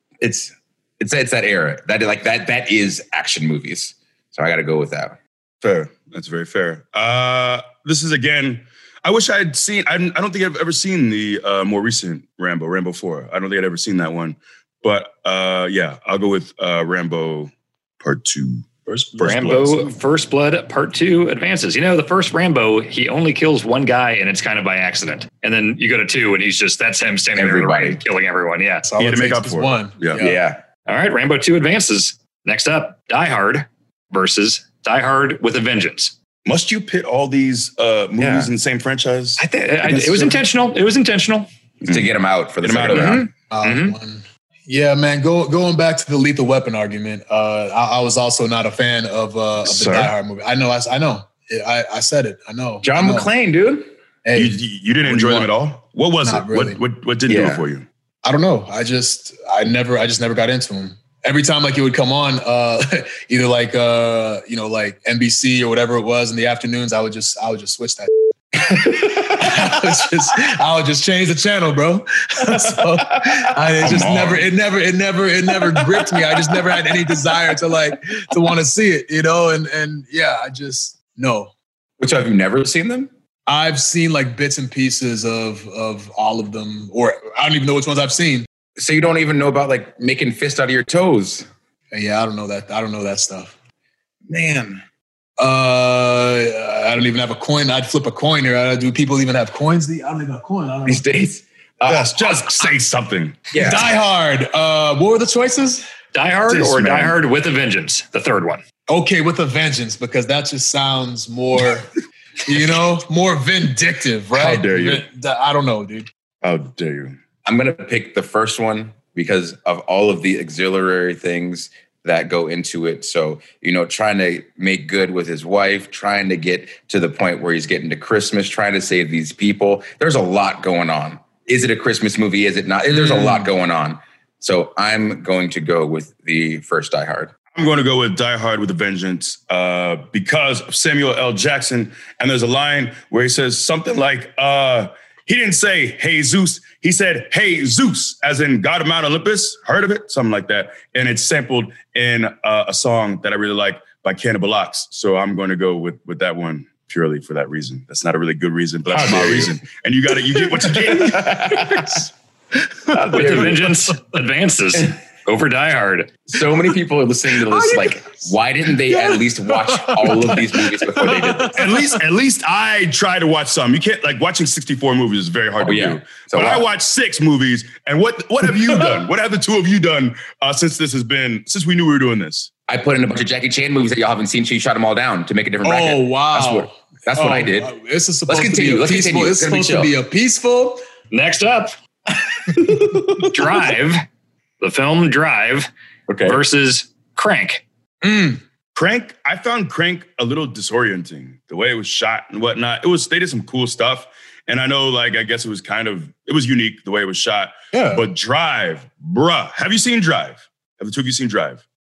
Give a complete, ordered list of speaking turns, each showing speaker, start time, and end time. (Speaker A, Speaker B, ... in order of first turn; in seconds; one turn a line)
Speaker A: 0.2-5.2
Speaker B: 5.6-19.9
Speaker C: 18.9-19.2
Speaker D: 19.2-28.8
Speaker A: 27.3-28.0
Speaker C: 28.8-30.4
Speaker B: 29.0-30.2
Speaker A: 30.1-30.6
Speaker D: 30.9-36.1
Speaker B: 36.5-40.4
Speaker A: 38.2-38.5
Speaker D: 39.4-41.5
Speaker A: 41.8-43.3
Speaker B: 42.6-43.3
Speaker D: 42.9-44.0
Speaker C: 43.5-53.3
Speaker B: 49.6-50.1
Speaker A: 52.8-53.9
Speaker C: 54.2-55.5
Speaker B: 54.3-57.9
Speaker C: 56.2-56.8
Speaker A: 57.3-57.6
Speaker C: 58.2-81.5
Speaker B: 73.8-74.4
Speaker A: 73.8-74.3
Speaker A: 82.0-83.1
Speaker C: 83.5-88.5
Speaker A: 88.8-91.5
Speaker C: 91.9-93.5
Speaker A: 94.3-94.8
Speaker C: 95.4-101.0
Speaker A: 100.8-102.4
Speaker B: 101.8-103.5
Speaker A: 103.5-103.9
Speaker C: 103.5-105.8
Speaker D: 106.1-108.6
Speaker B: 106.5-107.2
Speaker C: 108.9-111.9
Speaker C: 112.4-116.1
Speaker B: 114.3-115.0
Speaker B: 116.4-117.2
Speaker A: 117.4-137.3
Speaker B: 137.5-161.5
Speaker A: 158.9-159.6
Speaker A: 160.6-162.0
Speaker C: 161.7-162.0
Speaker A: 162.9-163.7
Speaker D: 163.1-166.1
Speaker A: 166.3-171.6
Speaker C: 167.5-168.2
Speaker C: 168.9-171.7
Speaker B: 171.5-182.5
Speaker A: 175.6-176.7
Speaker A: 182.7-187.7
Speaker C: 185.6-190.8
Speaker A: 188.3-189.9
Speaker D: 191.1-191.7
Speaker A: 192.9-193.3
Speaker D: 193.2-194.0
Speaker D: 194.6-195.7
Speaker A: 196.1-196.4
Speaker D: 196.2-197.6
Speaker C: 198.0-198.4
Speaker B: 198.7-211.6
Speaker C: 207.7-208.0